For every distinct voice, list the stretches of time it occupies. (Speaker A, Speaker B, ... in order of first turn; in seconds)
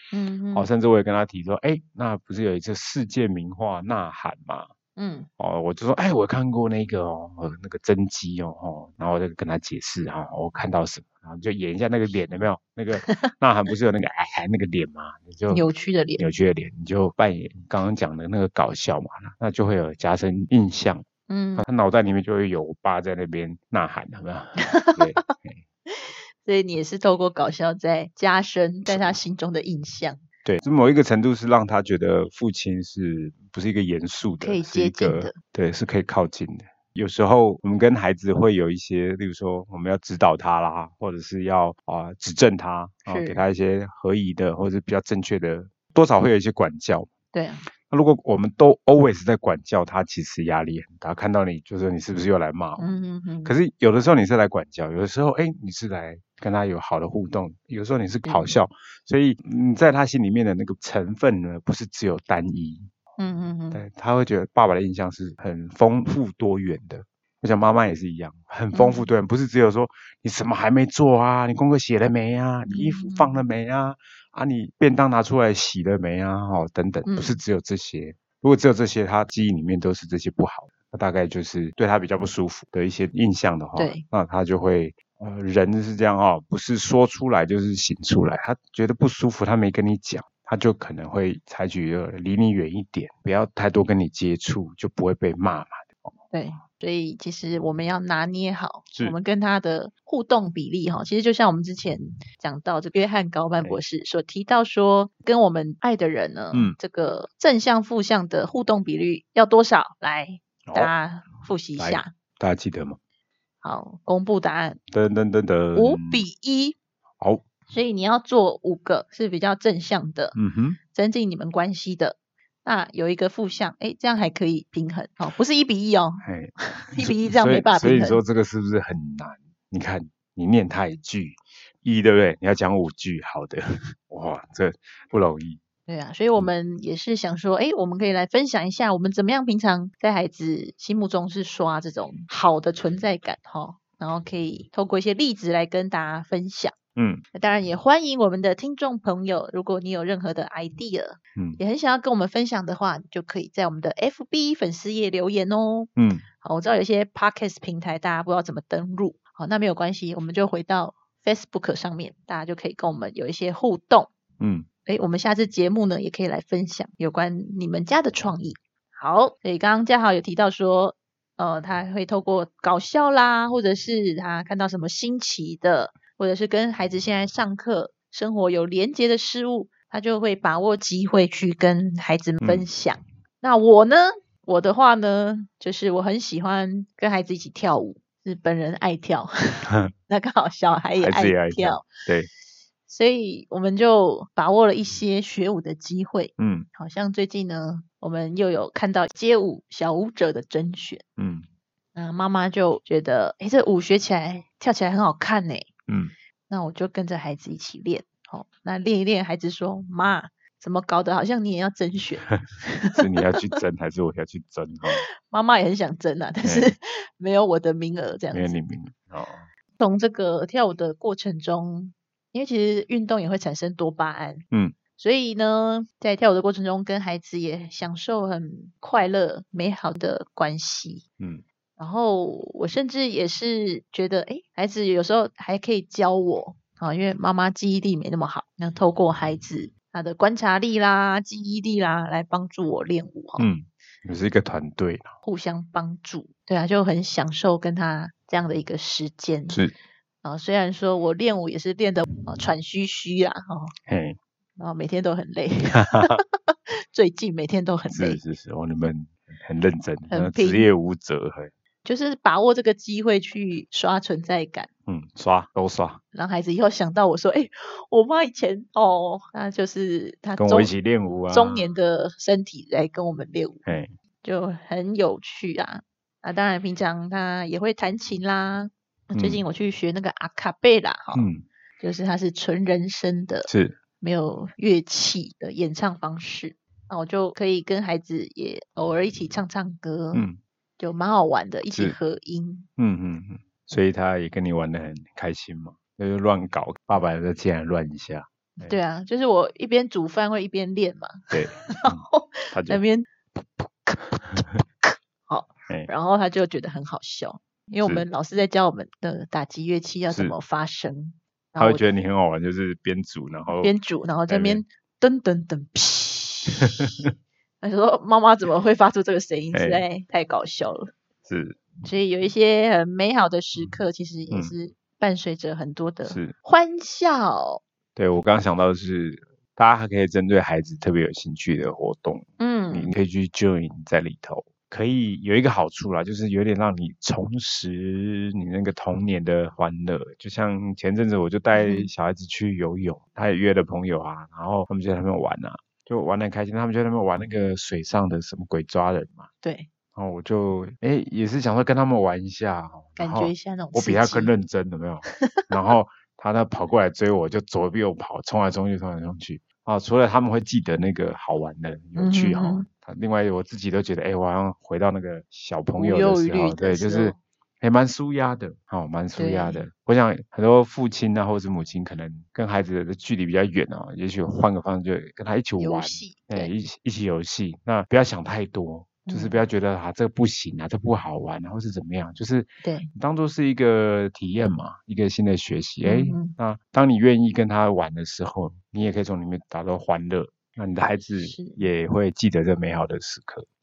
Speaker A: 0.1-0.7, 5.0-5.3, 13.0-13.3, 15.5-16.2, 21.3-21.6, 24.6-25.3, 25.9-30.2, 34.4-35.4, 43.1-43.4, 47.3-47.7, 52.8-53.5, 58.2-58.5, 63.2-63.8, 68.7-69.1, 72.7-73.4, 77.0-77.4, 83.8-84.0, 96.3-112.1, 113.6-114.8, 115.7-116.8, 117.7-120.3, 120.9-128.2, 135.9-146.7, 147.3-164.1, 164.8-191.9, 192.9-201.0, 201.9-205.7, 206.5-213.4, 215.0-218.6, 219.8-224.4, 225.0-231.0, 231.8-243.5, 245.2-249.6, 250.2-253.7, 254.6-258.2, 260.1-260.7, 261.8-264.7, 266.1-270.7, 271.3-273.6, 274.2-281.3, 281.8-283.5, 284.0-290.3, 290.8-292.7, 298.6-311.8, 313.6-317.0, 317.6-320.9, 321.8-327.6, 332.4-332.9, 341.5-341.9, 349.4-349.7, 353.0-354.3, 355.2-355.4, 361.9-362.7, 365.8-367.2, 369.1-369.6, 375.6-376.5, 379.1-379.4, 382.6-382.9, 385.8-386.3, 391.1-391.6
Speaker B: 0.5-4.7, 5.4-15.6, 16.2-21.1, 21.6-25.6, 28.9-29.2, 30.4-47.1, 47.9-52.9, 53.4-62.9, 63.7-96.1, 110.6-110.9, 111.8-113.0, 114.9-116.2, 120.3-120.8, 126.2-135.6, 146.9-147.2, 156.0-156.2, 164.4-164.7, 182.4-182.7, 191.0-192.3, 196.4-196.7, 201.2-201.4, 212.9-215.0, 216.4-216.7, 218.3-219.4, 243.4-245.1, 253.9-254.2, 255.7-256.2, 257.9-261.5, 264.9-266.0, 270.4-271.6, 273.6-273.9, 279.1-279.4, 281.1-281.4, 283.5-283.8, 290.1-290.4, 292.8-298.8, 301.3-302.8, 310.1-310.4, 311.6-313.7, 314.3-314.6, 319.5-319.8, 321.2-321.6, 326.1-326.3, 327.9-349.3, 349.9-393.4